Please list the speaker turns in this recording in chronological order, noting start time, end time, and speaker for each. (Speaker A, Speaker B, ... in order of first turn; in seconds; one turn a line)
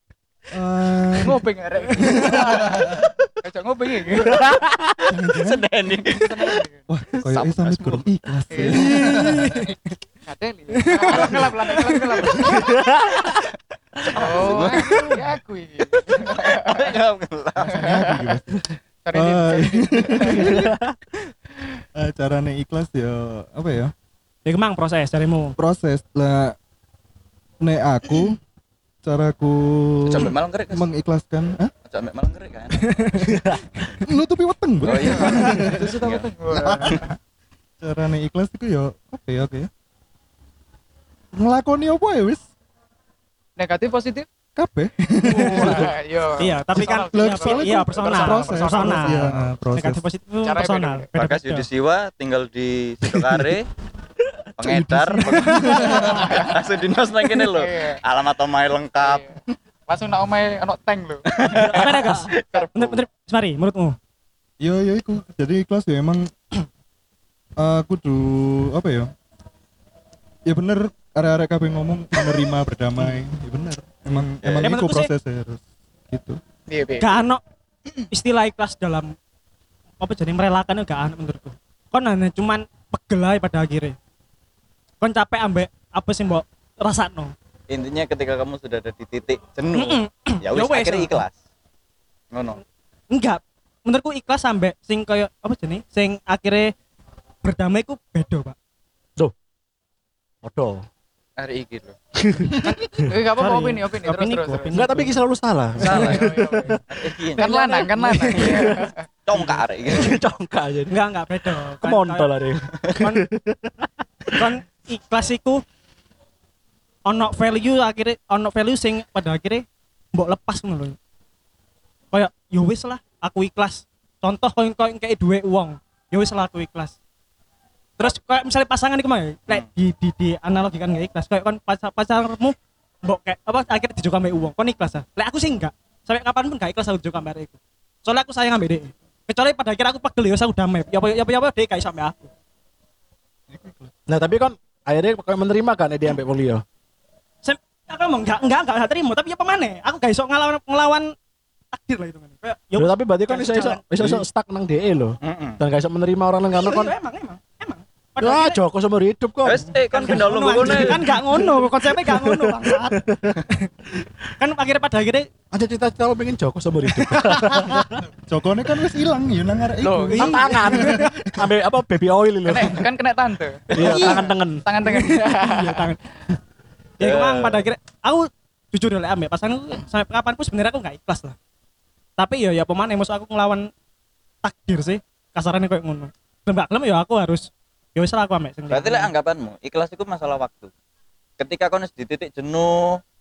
Speaker A: 0.5-1.4
Speaker B: 1.2-4.5
Speaker A: 2.0-3.1
Speaker C: 4.2-5.1
Speaker A: 5.1-5.6
Speaker D: 5.3-6.6
Speaker B: 6.0-6.9
Speaker A: 6.9-9.7
Speaker D: 7.3-8.1
Speaker B: 8.5-9.1
Speaker E: 8.7-9.8
Speaker B: 10.2-12.8
Speaker E: 10.8-11.3
Speaker D: 11.1-11.4
Speaker C: 12.3-13.4
Speaker D: 14.0-15.2
Speaker B: 14.1-16.9
Speaker D: 16.1-18.0
Speaker B: 17.6-18.3
Speaker A: 17.7-20.8
Speaker B: 19.0-20.6
Speaker C: 20.2-20.9
Speaker A: 21.9-23.9
Speaker E: 24.4-25.6
Speaker A: 25.6-26.6
Speaker A: 27.6-28.4
Speaker A: 29.0-31.7
Speaker D: 30.1-30.9
Speaker D: 31.9-33.9
Speaker E: 32.7-33.4
Speaker C: 33.2-33.6
Speaker A: 34.0-35.9
Speaker D: 34.8-36.3
Speaker B: 35.0-37.1
Speaker A: 36.5-37.1
Speaker A: 37.8-39.7
Speaker A: 41.3-42.4
Speaker B: 43.6-44.2
Speaker A: 44.5-45.9
Speaker B: 45.2-49.5
Speaker E: 45.4-45.8
Speaker E: 46.4-51.7
Speaker A: 46.7-50.0
Speaker B: 50.4-51.1
Speaker D: 51.1-53.7
Speaker D: 54.6-59.3
Speaker A: 54.6-56.4
Speaker E: 55.3-55.8
Speaker B: 55.9-56.5
Speaker B: 57.3-58.0
Speaker B: 59.0-59.3
Speaker B: 59.9-61.2
Speaker D: 61.3-63.0
Speaker C: 61.5-62.3
Speaker E: 61.5-64.0
Speaker A: 64.6-66.3
Speaker A: 67.6-69.1
Speaker A: 70.5-76.4
Speaker D: 74.4-74.8
Speaker E: 74.6-75.1
Speaker B: 76.7-77.1
Speaker E: 77.0-77.4
Speaker E: 78.0-79.1
Speaker E: 80.0-84.0
Speaker E: 85.0-87.3
Speaker D: 87.7-91.4
Speaker E: 89.7-91.2
Speaker D: 92.3-92.6
Speaker E: 93.1-96.7
Speaker E: 97.4-98.5
Speaker C: 100.4-100.8
Speaker D: 101.4-102.0
Speaker C: 102.1-103.0
Speaker B: 102.6-104.9
Speaker E: 103.4-105.2
Speaker C: 104.7-106.8
Speaker D: 105.8-106.3
Speaker B: 105.8-106.8
Speaker D: 106.9-108.7
Speaker B: 107.3-109.0
Speaker C: 108.3-108.9
Speaker D: 109.2-110.2
Speaker C: 109.8-111.0
Speaker E: 110.9-112.3
Speaker C: 111.8-114.5
Speaker E: 113.0-113.2
Speaker E: 114.3-115.6
Speaker E: 117.0-121.0
Speaker E: 122.1-126.9
Speaker E: 128.0-142.3
Speaker A: 143.5-143.9
Speaker C: 144.1-146.6
Speaker E: 147.4-151.1
Speaker E: 151.7-153.8
Speaker C: 152.8-156.9
Speaker D: 155.2-155.6
Speaker E: 156.5-158.6
Speaker C: 158.2-163.4
Speaker D: 159.4-161.0
Speaker E: 159.6-163.7
Speaker E: 164.4-165.3
Speaker C: 165.5-168.0
Speaker E: 166.9-167.8
Speaker A: 168.3-171.5
Speaker B: 169.8-170.3
Speaker E: 170.1-171.1
Speaker C: 170.2-172.9
Speaker B: 172.4-175.9
Speaker C: 173.7-174.6
Speaker E: 173.8-174.2
Speaker E: 174.8-176.0
Speaker E: 177.0-181.3
Speaker D: 177.0-177.7
Speaker E: 182.2-183.7
Speaker E: 184.4-189.1
Speaker D: 188.7-190.7
Speaker D: 191.4-193.0